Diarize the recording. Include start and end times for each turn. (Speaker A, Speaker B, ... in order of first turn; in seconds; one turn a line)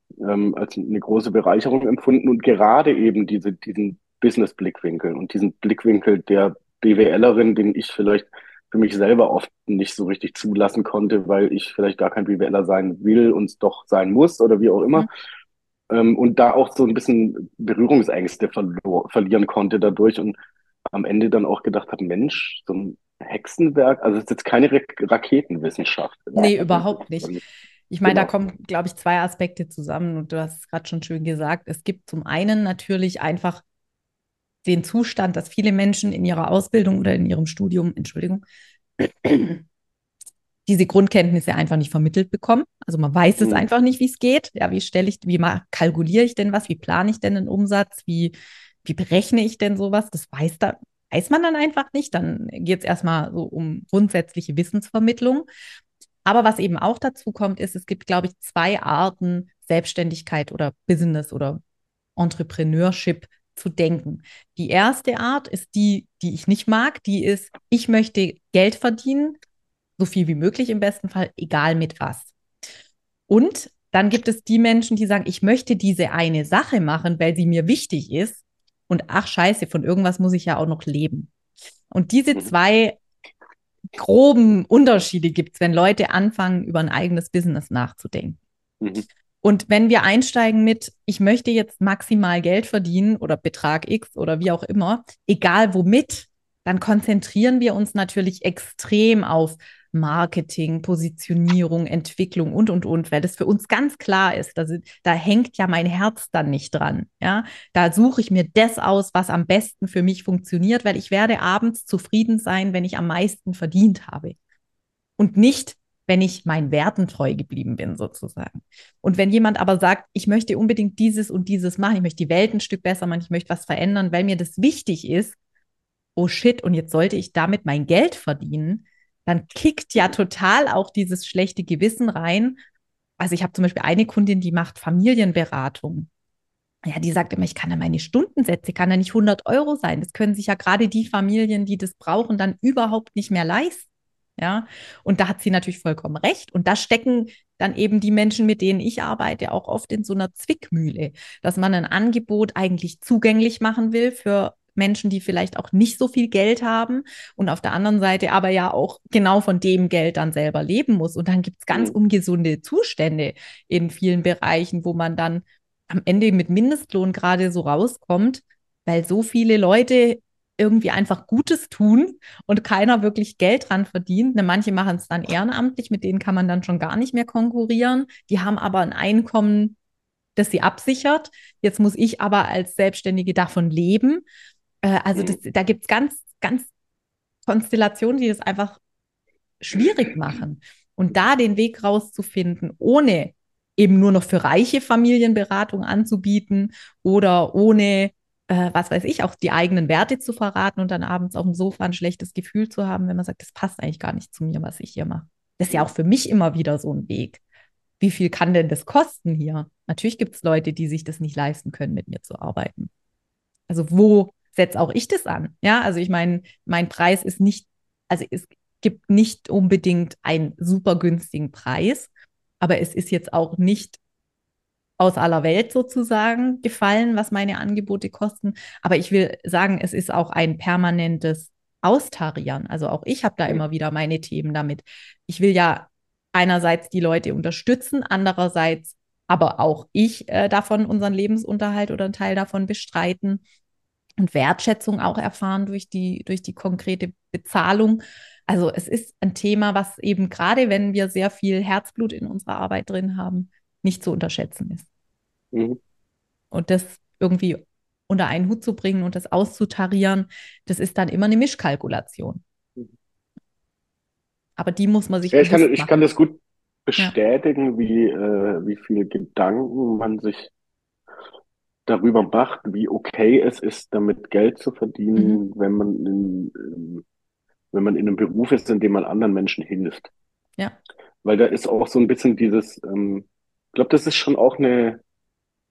Speaker A: 0.2-15.1
Speaker A: 15.9-20.3
Speaker A: 20.9-27.4
Speaker B: 26.3-27.4
Speaker B: 27.9-33.6
Speaker A: 28.0-28.3
Speaker B: 34.6-38.4
Speaker B: 39.0-39.6
Speaker B: 40.6-48.3
Speaker A: 43.4-43.7
Speaker B: 48.8-55.5
Speaker B: 56.2-61.6
Speaker B: 62.2-69.4
Speaker B: 70.0-72.3
Speaker B: 73.3-81.3
Speaker B: 81.9-83.0
Speaker B: 83.9-88.4
Speaker B: 89.4-114.3
Speaker B: 115.2-125.3
Speaker B: 126.2-132.6
Speaker B: 133.2-136.1
Speaker B: 136.8-179.8
Speaker B: 180.3-184.2
Speaker B: 184.8-186.7
Speaker B: 187.5-188.8
Speaker B: 189.6-207.4
Speaker B: 208.0-212.9
Speaker B: 213.7-222.1
Speaker B: 222.6-224.0
Speaker B: 225.0-243.4
Speaker B: 244.2-254.8
Speaker A: 255.5-255.8
Speaker B: 256.5-262.4
Speaker B: 264.6-266.0
Speaker A: 265.3-270.5
Speaker A: 271.9-277.0
Speaker B: 275.1-275.4
Speaker A: 277.7-280.1
Speaker A: 281.2-285.0